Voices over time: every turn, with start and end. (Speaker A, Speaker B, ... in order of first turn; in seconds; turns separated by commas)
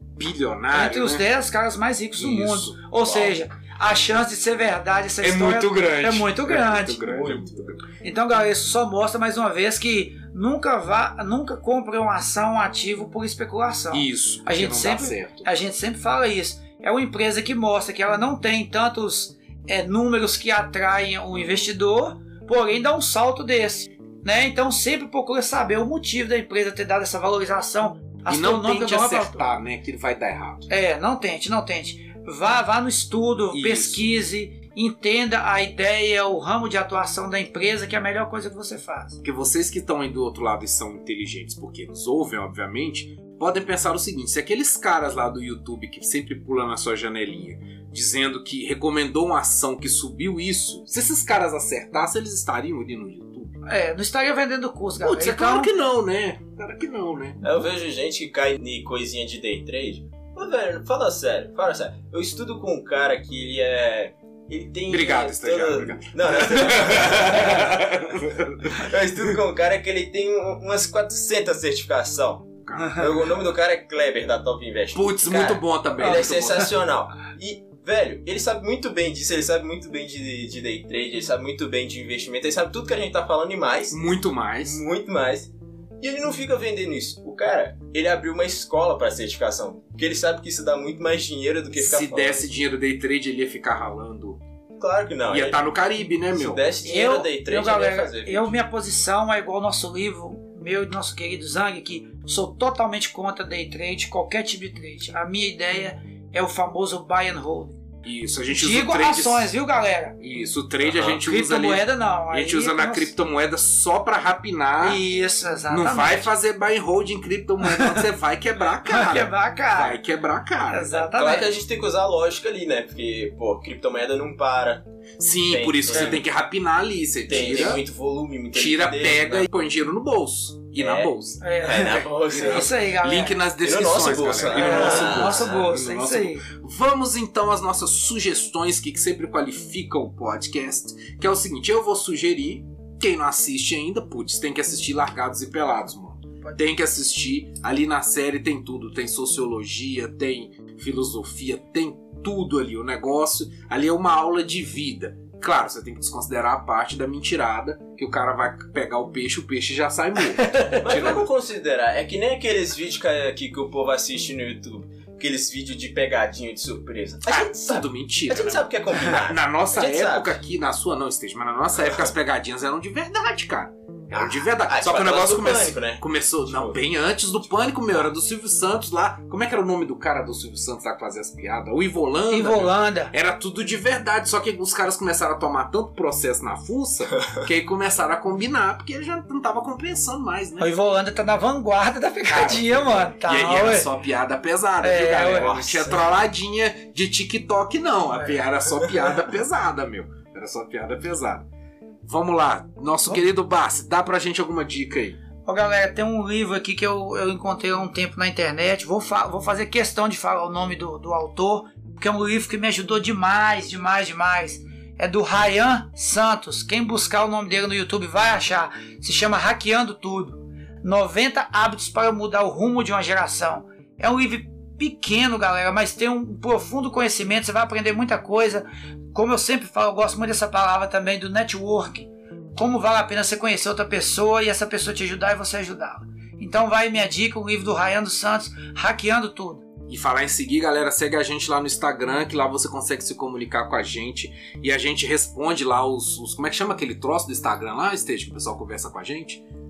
Speaker A: 0.1-1.2, Speaker B: 0.7-7.1, Speaker A: 2.1-2.8, Speaker C: 3.0-3.4, Speaker A: 5.2-7.8, Speaker C: 7.0-7.8, Speaker B: 7.9-29.5, Speaker A: 13.9-15.5, Speaker A: 28.3-30.7, Speaker B: 30.7-39.2, Speaker A: 33.5-34.2, Speaker A: 39.2-53.6, Speaker B: 53.6-55.7, Speaker A: 55.0-57.5, Speaker C: 57.4-67.7, Speaker A: 64.9-68.9, Speaker C: 68.7-84.1, Speaker A: 72.6-73.1, Speaker A: 74.9-76.7, Speaker A: 83.9-84.8, Speaker C: 84.6-92.5, Speaker A: 91.8-94.4, Speaker C: 94.8-95.6, Speaker A: 95.3-96.7, Speaker C: 96.3-98.6, Speaker B: 96.8-107.8, Speaker A: 108.0-109.5, Speaker B: 108.5-110.2, Speaker A: 110.2-115.0, Speaker C: 110.8-111.2, Speaker B: 111.2-113.1, Speaker B: 114.8-116.3, Speaker A: 115.7-120.9, Speaker B: 117.6-118.1, Speaker B: 118.8-120.0, Speaker B: 120.6-121.5, Speaker C: 120.9-124.8, Speaker A: 125.2-127.8, Speaker C: 125.5-126.2, Speaker C: 127.3-129.5, Speaker A: 128.5-131.5, Speaker C: 130.8-132.7, Speaker B: 131.4-133.5, Speaker A: 132.2-161.3, Speaker C: 133.5-135.8, Speaker B: 134.5-136.4, Speaker B: 160.3-161.1, Speaker C: 160.8-170.4, Speaker A: 167.3-190.7, Speaker C: 171.8-172.1, Speaker C: 174.1-176.8, Speaker B: 182.3-183.1, Speaker B: 190.6-193.9, Speaker A: 192.2-201.4, Speaker B: 194.8-195.8, Speaker C: 195.3-196.1, Speaker B: 198.1-198.4, Speaker A: 202.1-205.2, Speaker B: 205.4-239.6, Speaker A: 239.9-249.4